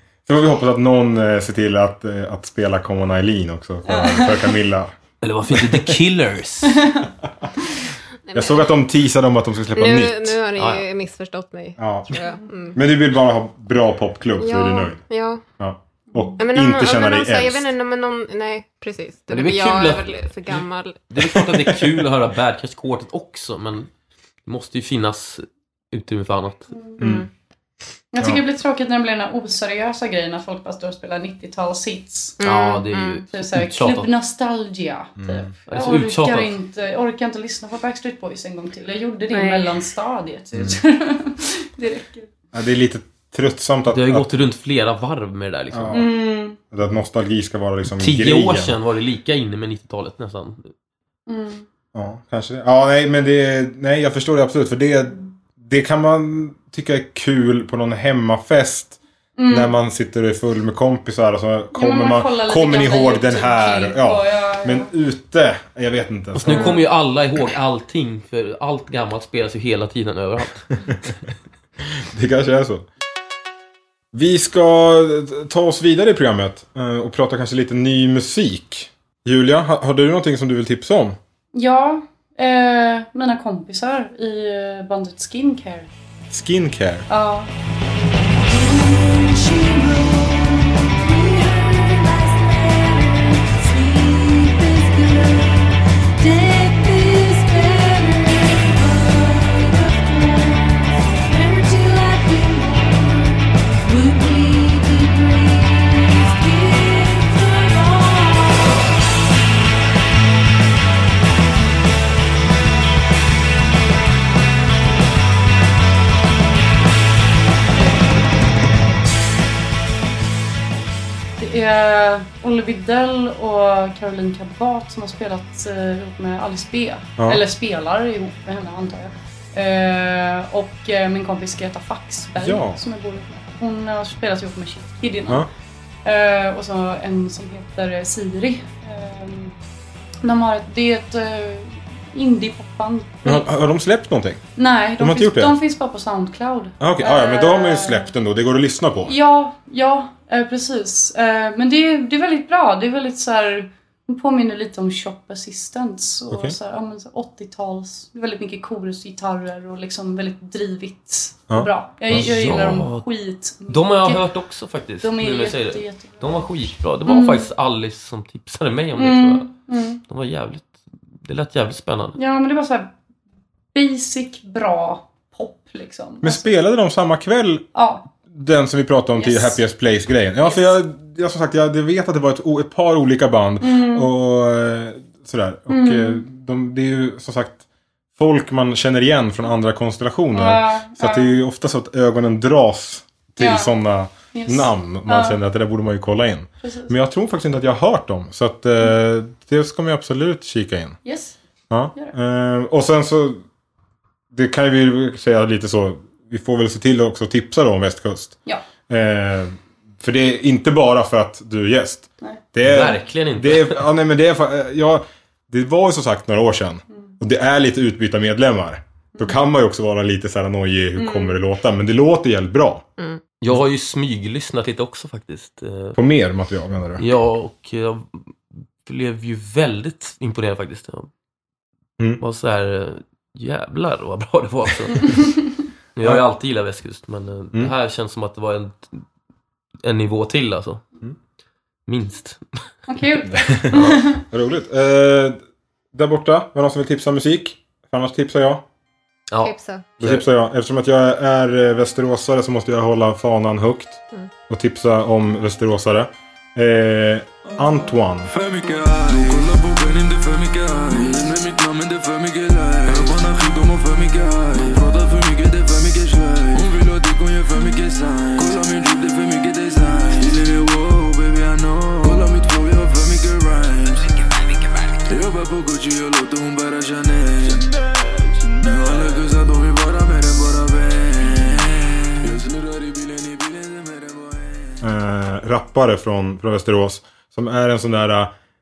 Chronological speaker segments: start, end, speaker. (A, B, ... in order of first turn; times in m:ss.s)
0:00.3-0:04.9 A
0:03.9-0:04.6 B
0:05.2-0:06.8 C
0:05.5-0:05.8 A
0:06.7-0:07.1 B
0:08.3-0:08.7 D
0:08.3-0:10.4 A
0:09.8-0:12.8 D
0:10.6-0:10.8 C
0:11.8-0:12.2 A
0:12.8-0:15.0 A
0:14.4-0:15.4 D
0:15.6-0:17.7 A
0:16.4-0:21.4 D
0:19.3-0:23.9 C
0:24.4-0:26.7 C
0:26.7-0:27.0 B
0:27.0-0:27.3 D
0:27.0-0:27.3 A
0:28.1-0:32.4 B
0:32.4-0:33.2 D
0:32.4-0:34.1 C
0:33.3-0:42.3 B
0:35.2-0:35.5 A
0:35.7-0:36.6 C
0:39.3-0:39.7 D
0:42.5-0:44.3 A
0:43.9-0:46.1 C
0:45.7-0:46.1 A
0:45.9-0:46.6 B
0:46.7-0:48.7 A
0:48.0-0:50.7 C
0:51.3-0:51.7 B
0:51.9-0:59.0 A
0:59.4-0:59.7 B
0:59.5-1:06.8 A
1:01.8-1:04.9 B
1:06.4-1:10.7 C
1:06.5-1:06.8 B
1:12.0-1:12.9 A
1:14.1-1:21.2 A
1:21.5-1:25.9 B
1:26.3-1:27.1 A
1:27.1-1:27.5 B
1:28.4-1:48.9 E
2:01.4-2:15.5 B
2:12.4-2:12.8 A
2:16.0-2:19.6 B
2:20.2-2:23.5 B
2:23.2-2:24.4 A
2:24.6-2:28.1 B
2:25.0-2:25.6 A
2:26.8-2:29.2 A
2:29.1-2:44.2 B
2:36.3-2:36.6 A
2:42.1-2:43.0 C
2:43.7-2:49.5 C
2:45.0-2:46.5 B
2:47.1-2:47.5 B
2:49.0-2:50.0 B
2:50.1-2:52.2 C
2:52.2-2:52.9 B
2:53.7-2:56.5 B
2:56.2-2:57.6 A
2:57.8-2:58.1 B
2:58.3-3:07.6 A
2:59.2-2:59.6 B
3:00.4-3:00.7 B
3:03.6-3:04.1 B
3:05.7-3:06.2 B
3:08.2-3:21.0 A
3:10.3-3:11.4 B
3:13.4-3:13.7 B
3:14.3-3:15.4 B
3:16.6-3:16.9 B
3:21.0-3:21.4 B
3:21.7-3:23.4 A
3:24.3-3:42.8 A
3:32.6-3:33.9 C
3:39.2-3:39.4 B
3:41.0-3:41.4 B
3:43.4-3:46.0 C
3:46.0-3:47.0 A
3:47.0-3:51.1 C
3:52.2-3:55.2 C
3:56.0-3:59.0 C
3:59.8-4:00.8 C
4:01.9-4:02.6 C
4:02.9-4:04.2 B
4:03.3-4:05.4 A
4:03.7-4:04.0 C
4:05.9-4:08.6 A
4:09.3-4:10.2 C
4:09.4-4:09.8 D
4:10.0-4:18.3 A
4:18.3-4:34.2 F
4:35.1-4:44.8 F
4:44.8-4:48.3 A